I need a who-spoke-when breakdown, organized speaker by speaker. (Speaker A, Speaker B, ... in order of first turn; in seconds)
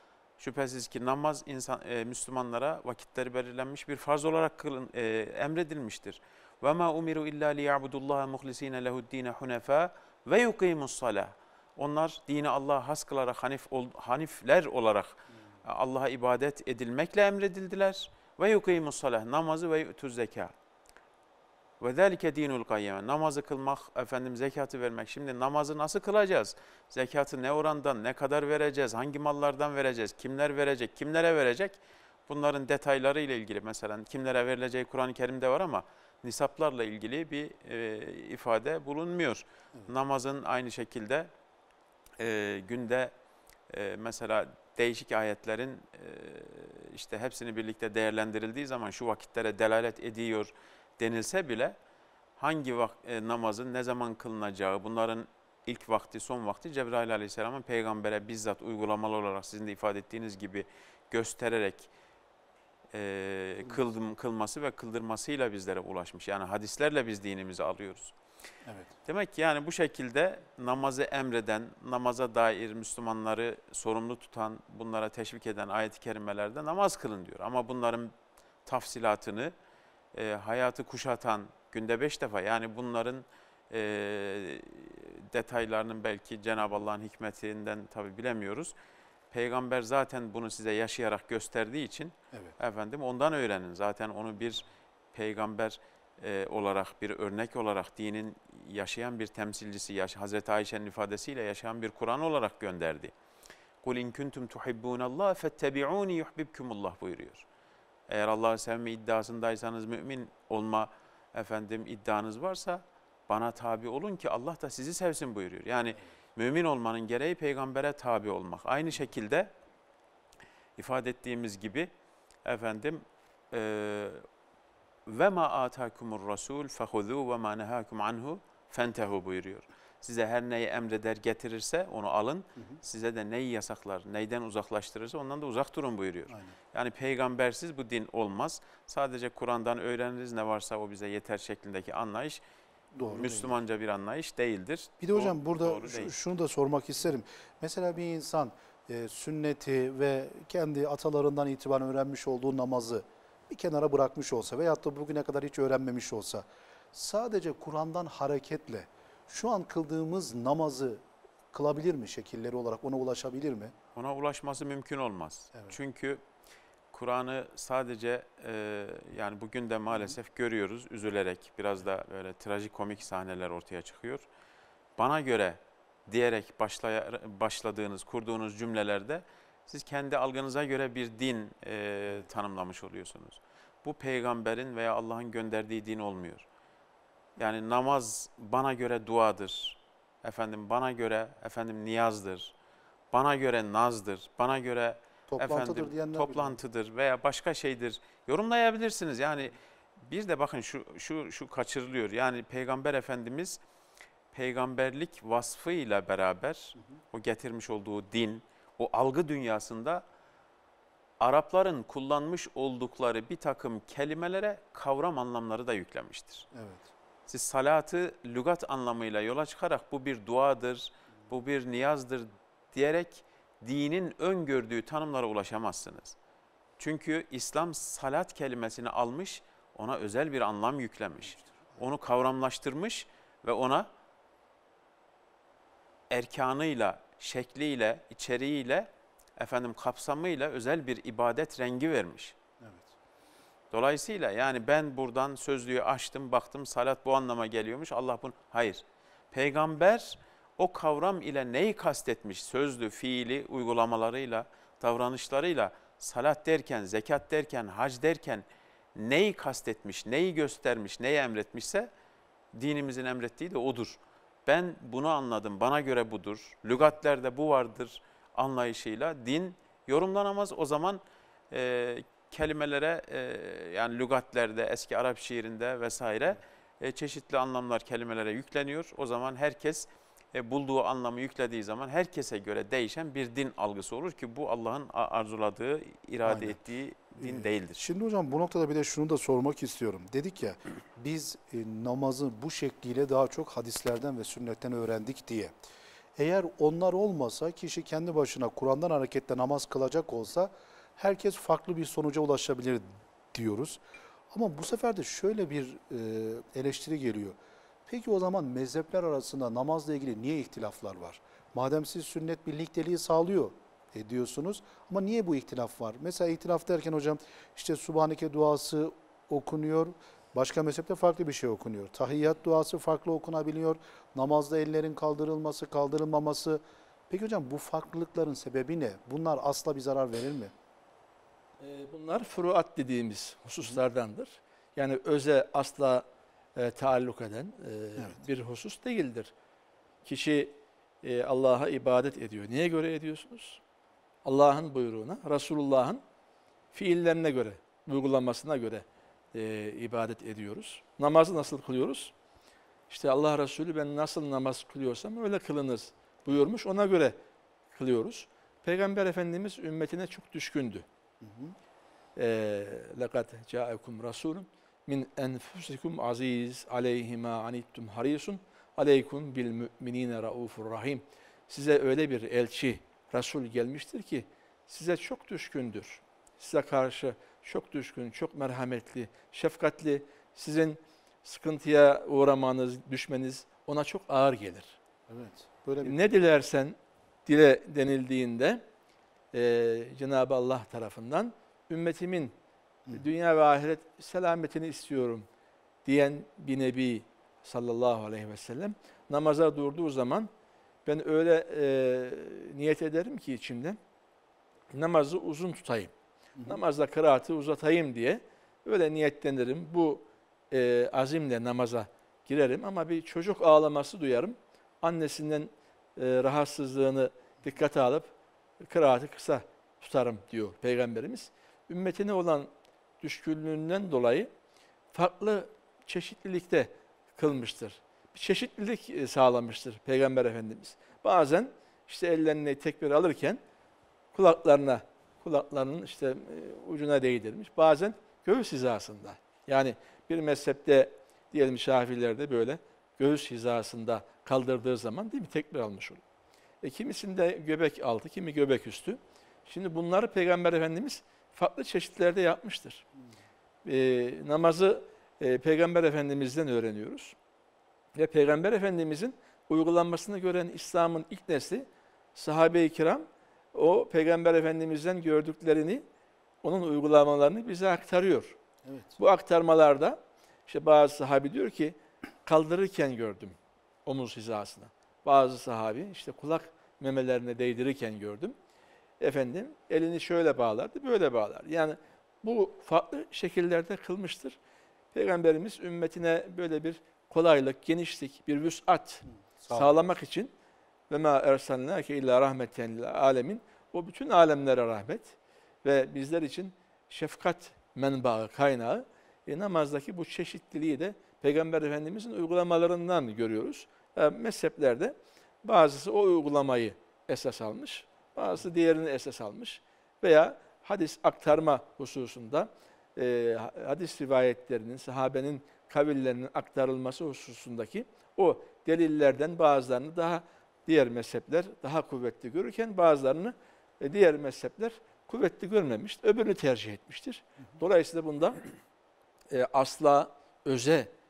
Speaker A: 0.4-20.5, 21.8-41.3, 42.2-43.1, 43.7-51.8, 52.4-61.9, 62.9-68.1, 69.0-78.1, 78.7-79.5, 80.1-88.7, 89.3-103.1, 103.8-107.5, 108.1-119.5, 120.8-121.9, 122.4-124.2, 125.0-142.4, 143.1-146.1, 163.9-166.2, 166.9-174.2, 175.0-186.4, 187.4-192.5, 193.1-203.6, 204.3-210.0, 211.2-216.5, 217.3-226.2, 226.8-233.9, 236.1-242.3, 243.7-261.9, 262.5-287.8
Speaker B: 68.7-68.9, 142.9-143.6, 145.0-163.7, 195.3-196.6, 216.5-216.9, 242.6-242.9, 286.2-286.6, 287.2-295.5, 296.1-330.5, 361.2-361.5, 385.1-386.0, 468.6-468.9, 489.4-489.8
Speaker C: 331.6-336.0, 336.6-339.3, 340.0-343.6, 344.2-346.0, 346.7-352.1, 352.9-357.2, 357.7-360.9, 362.1-384.8, 385.8-388.6, 389.3-392.3, 392.9-395.2, 395.8-400.3, 400.8-403.8, 404.7-405.9, 406.4-422.5, 423.0-424.3, 424.9-433.4, 434.1-446.0, 446.6-452.9, 453.6-457.1, 457.9-465.8, 466.4-468.4, 469.0-478.3, 479.0-484.4, 484.9-490.3, 490.9-528.5, 529.3-530.9